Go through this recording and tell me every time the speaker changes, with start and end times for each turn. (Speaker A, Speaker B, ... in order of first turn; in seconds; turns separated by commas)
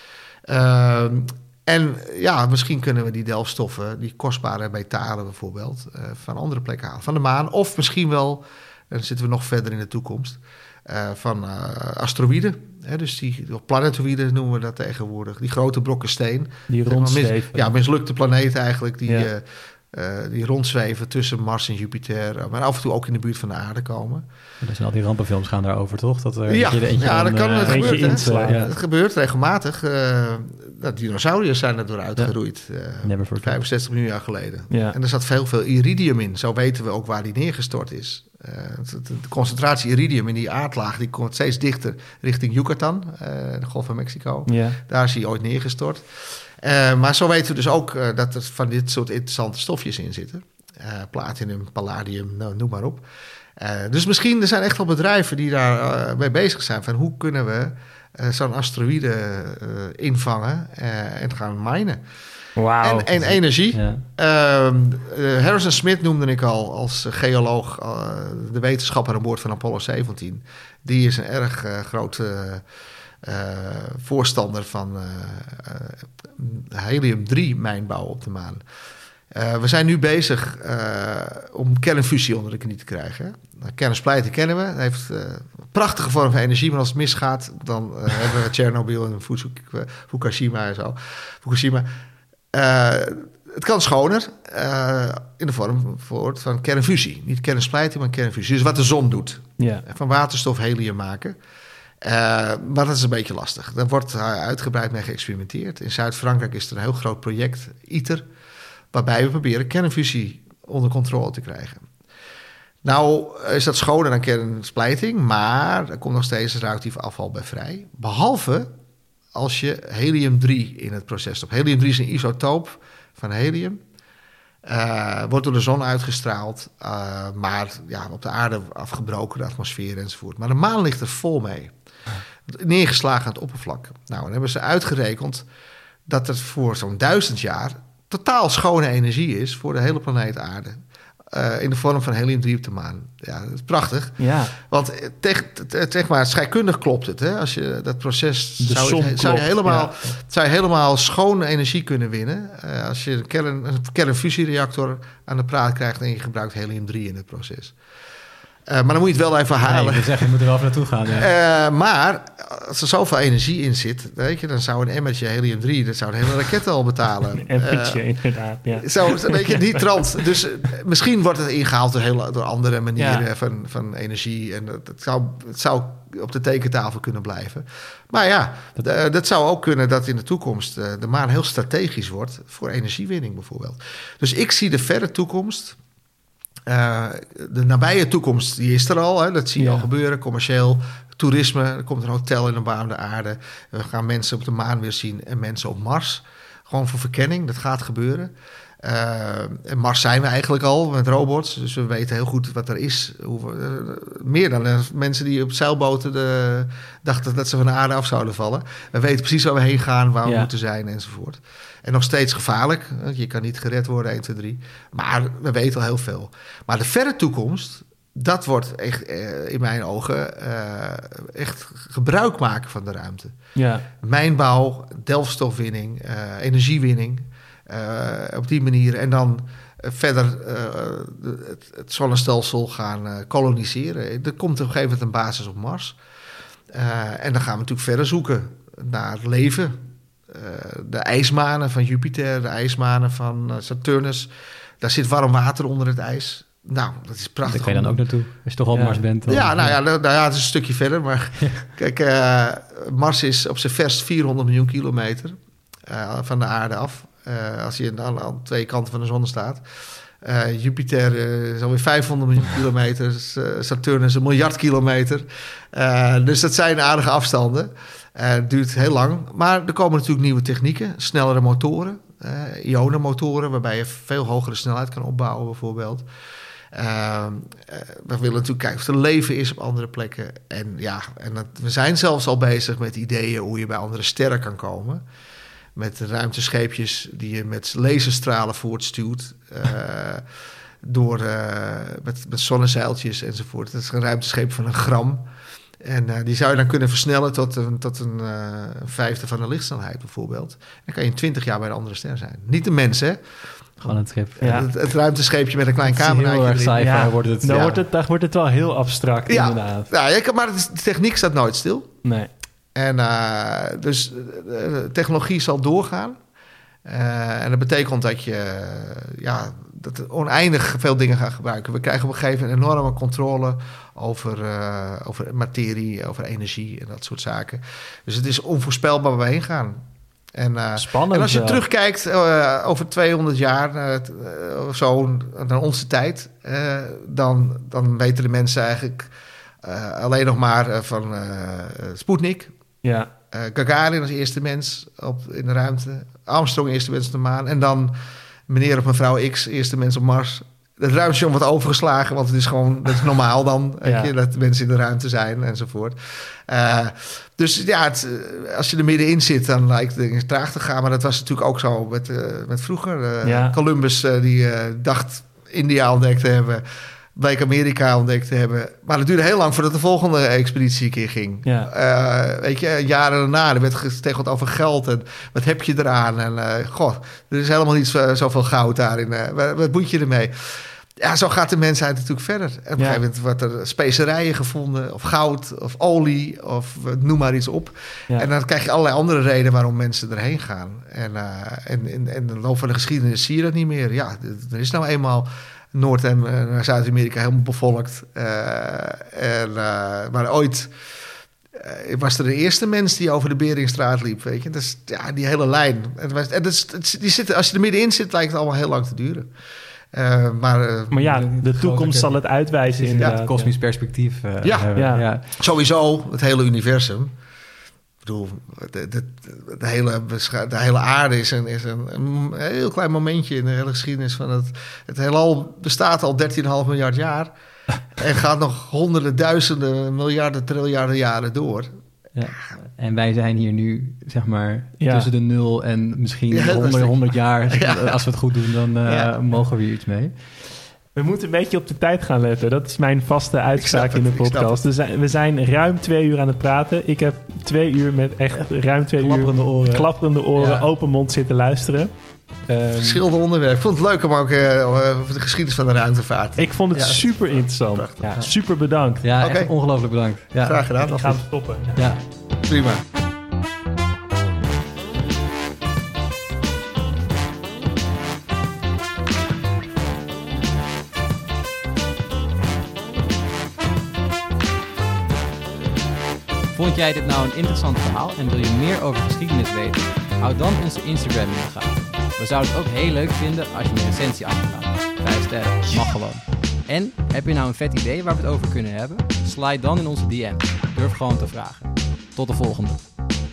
Speaker A: 0.5-24.2, Speaker B: 16.7-17.7, Speaker C: 24.6-28.7, Speaker A: 26.5-46.0, Speaker B: 27.6-28.7, Speaker C: 33.0-33.6, Speaker B: 34.7-35.0, Speaker B: 44.5-44.8, Speaker A: 46.6-53.0, Speaker A: 53.6-62.0, Speaker B: 62.6-63.2, Speaker A: 62.8-72.6, Speaker C: 63.2-64.0, Speaker A: 73.2-78.6, Speaker A: 79.3-91.9, Speaker A: 92.5-101.3, Speaker B: 99.6-99.8, Speaker A: 102.0-108.2, Speaker A: 108.9-111.9, Speaker A: 112.8-118.7, Speaker A: 119.3-123.8, Speaker A: 124.7-131.7, Speaker A: 132.5-135.4, Speaker A: 136.1-140.8, Speaker A: 141.3-157.7, Speaker B: 144.2-144.5, Speaker B: 148.6-150.1, Speaker A: 158.7-160.4, Speaker C: 159.6-161.3, Speaker A: 161.1-168.0, Speaker B: 167.4-169.8, Speaker A: 168.8-185.8, Speaker B: 173.0-173.3, Speaker A: 186.7-198.3, Speaker B: 189.6-189.9, Speaker A: 198.8-223.4, Speaker B: 223.6-223.9, Speaker A: 224.0-236.0, Speaker A: 236.7-239.8, Speaker A: 240.3-244.3, Speaker A: 244.8-248.0, Speaker C: 247.4-249.8, Speaker B: 248.7-249.0, Speaker A: 249.3-259.6, Speaker A: 260.2-276.1, Speaker A: 276.7-285.0, Speaker A: 285.8-290.2, Speaker A: 290.8-295.3, Speaker A: 295.8-303.2, Speaker A: 303.8-307.0, Speaker C: 303.9-304.6, Speaker B: 304.4-304.7, Speaker C: 305.8-307.8, Speaker B: 306.8-309.9, Speaker A: 309.3-311.9, Speaker B: 312.0-312.3, Speaker A: 312.8-316.2, Speaker A: 316.9-329.8, Speaker A: 330.4-339.1, Speaker B: 330.8-331.6, Speaker A: 339.6-342.5, Speaker B: 342.8-343.1, Speaker A: 343.3-347.9, Speaker A: 348.5-366.6, Speaker B: 353.9-354.1, Speaker B: 363.2-363.6, Speaker A: 367.2-400.7, Speaker B: 371.4-371.7, Speaker A: 401.5-409.3, Speaker A: 409.9-411.0, Speaker B: 410.9-413.5, Speaker C: 410.9-415.3, Speaker A: 413.0-413.2, Speaker A: 414.4-417.1, Speaker B: 414.8-415.1, Speaker A: 418.0-427.3, Speaker A: 427.9-431.7, Speaker C: 432.1-440.1, Speaker B: 434.8-435.1, Speaker A: 436.3-438.1, Speaker A: 438.8-439.1, Speaker B: 440.9-451.9, Speaker A: 443.6-444.7, Speaker C: 449.0-450.7, Speaker B: 452.5-453.0, Speaker A: 452.7-458.2, Speaker B: 456.4-459.1, Speaker C: 459.0-462.0, Speaker A: 459.2-459.6, Speaker A: 460.4-461.2, Speaker B: 460.8-461.8, Speaker A: 462.4-462.8, Speaker C: 476.5-492.9